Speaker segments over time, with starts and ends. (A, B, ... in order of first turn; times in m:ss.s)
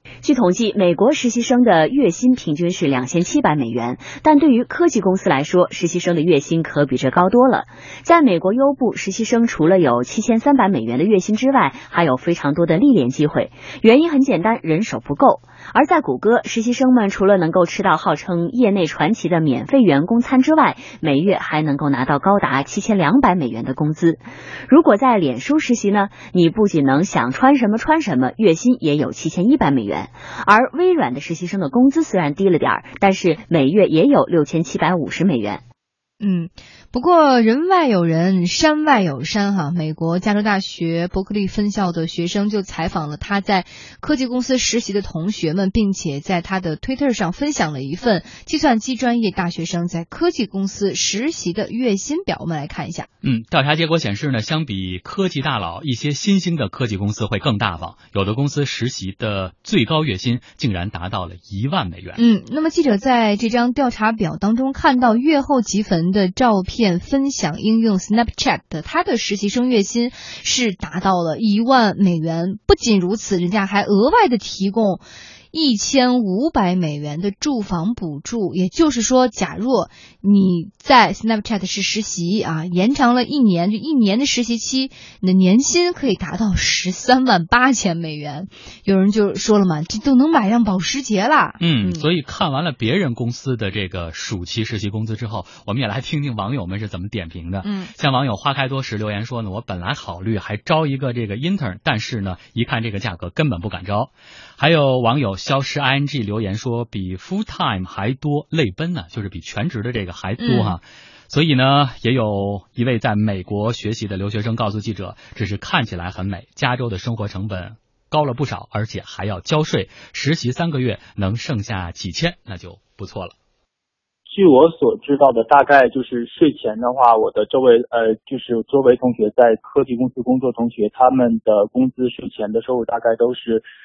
0:00.2-0:35.6 A
0:36.2-0:53.1 B
0:53.2-1:02.2 C
1:02.2-1:32.0 B
1:31.6-2:03.3 C
1:37.6-1:37.9 B
1:50.4-1:50.8 B
2:04.3-2:13.6 D